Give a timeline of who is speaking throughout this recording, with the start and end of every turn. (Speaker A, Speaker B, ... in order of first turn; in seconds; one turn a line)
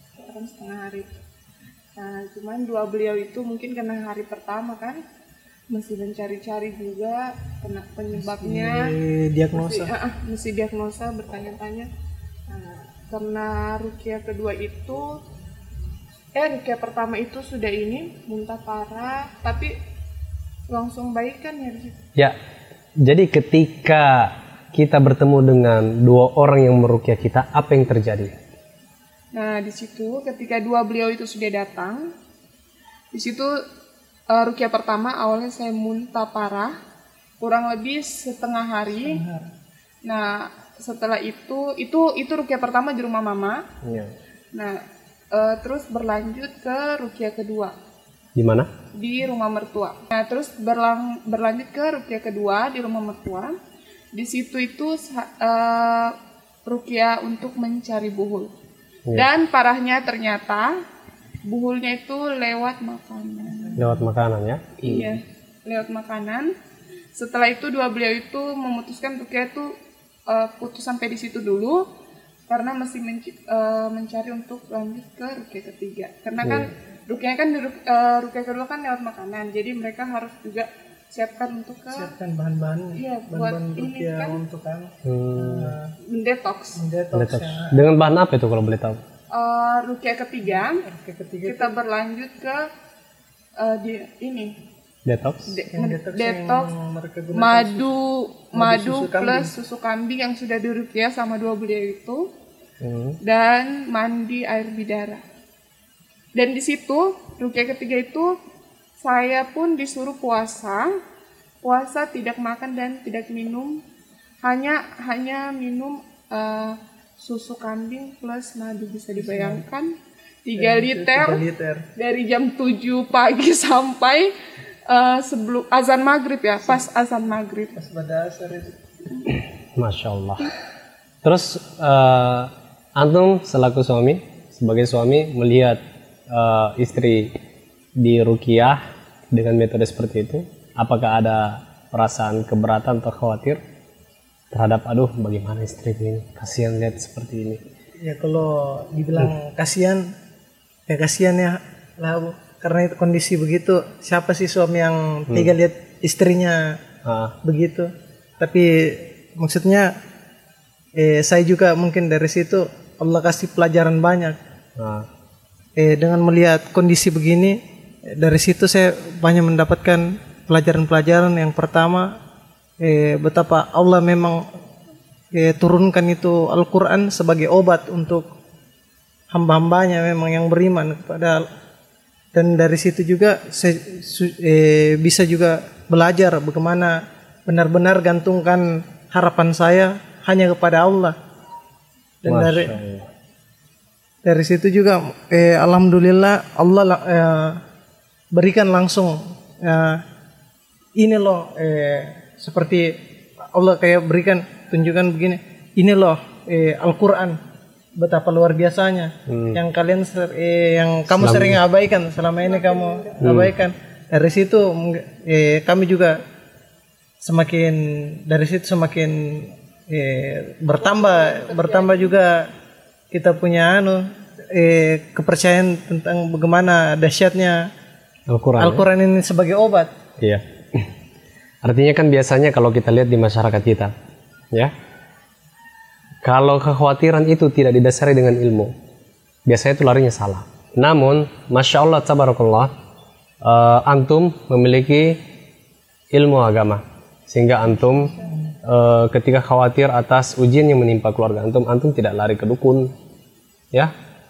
Speaker A: 0.2-1.1
Speaker A: 2.0-5.0
Speaker A: 5.7-9.0
Speaker B: 8.2-9.9
Speaker A: 9.5-11.9
Speaker A: 12.5-15.2
Speaker A: 16.4-19.8
Speaker A: 20.7-22.0
Speaker C: 23.0-28.3
Speaker A: 29.3-32.1
Speaker A: 33.1-33.5
Speaker A: 34.3-36.7
Speaker A: 37.4-39.2
Speaker B: 38.9-39.5
Speaker A: 40.0-43.6
Speaker C: 43.8-44.1
Speaker A: 44.5-44.8
Speaker A: 45.3-47.7
Speaker C: 48.4-48.7
Speaker A: 49.0-53.5
Speaker A: 54.1-58.5
Speaker A: 59.1-60.7
Speaker A: 61.5-63.8
Speaker B: 63.6-64.1
Speaker C: 63.8-65.2
Speaker A: 64.8-66.5
Speaker A: 67.1-69.7
Speaker A: 70.3-71.8
Speaker A: 72.5-82.1
Speaker C: 76.4-76.7
Speaker B: 81.9-85.9
Speaker A: 83.0-84.4
Speaker C: 85.0-85.8
Speaker A: 86.0-86.8
Speaker B: 86.8-87.8
Speaker C: 87.1-89.0
Speaker A: 89.3-90.8
Speaker B: 90.4-91.8
Speaker A: 91.5-92.7
Speaker A: 93.6-94.5
Speaker C: 95.0-95.5
Speaker A: 95.5-96.7
Speaker B: 95.7-97.9
Speaker A: 97.3-102.2
Speaker B: 98.5-99.5
Speaker C: 102.8-103.2
Speaker A: 103.2-105.2
Speaker A: 106.4-108.3
Speaker A: 109.0-110.9
Speaker A: 111.6-113.8
Speaker A: 114.4-119.9
Speaker B: 119.2-119.6
Speaker A: 120.5-121.4
Speaker B: 120.6-121.8
Speaker A: 122.0-124.3
Speaker A: 124.9-127.8
Speaker B: 127.8-128.8
Speaker C: 129.8-130.5
Speaker C: 131.2-137.3
Speaker C: 138.0-138.8
Speaker C: 139.3-143.6
Speaker C: 144.5-147.6
Speaker B: 148.0-150.1
Speaker B: 150.9-156.8
Speaker C: 155.3-155.5
Speaker C: 157.1-157.3
Speaker B: 157.4-159.9
Speaker B: 161.0-164.4
Speaker C: 164.8-165.1
Speaker B: 165.8-167.6
Speaker B: 168.2-172.1
Speaker B: 172.8-174.4
Speaker B: 175.3-178.3
Speaker B: 179.3-181.4
Speaker B: 182.3-191.2
Speaker B: 192.2-192.8
Speaker C: 192.3-193.1
Speaker B: 194.2-197.6
Speaker B: 198.3-200.0
Speaker B: 201.0-203.0
Speaker B: 203.5-207.4
Speaker B: 208.0-216.2
Speaker C: 209.3-209.6
Speaker C: 211.2-211.6
Speaker A: 212.4-213.4
Speaker C: 213.2-213.5
Speaker B: 217.2-222.5
Speaker A: 220.8-222.2
Speaker B: 223.1-227.7
Speaker C: 228.3-228.9
Speaker B: 228.6-229.9
Speaker C: 230.2-230.9
Speaker C: 231.6-233.9
Speaker C: 236.2-238.7
Speaker C: 239.5-242.7
Speaker C: 243.4-245.2
Speaker C: 246.1-252.9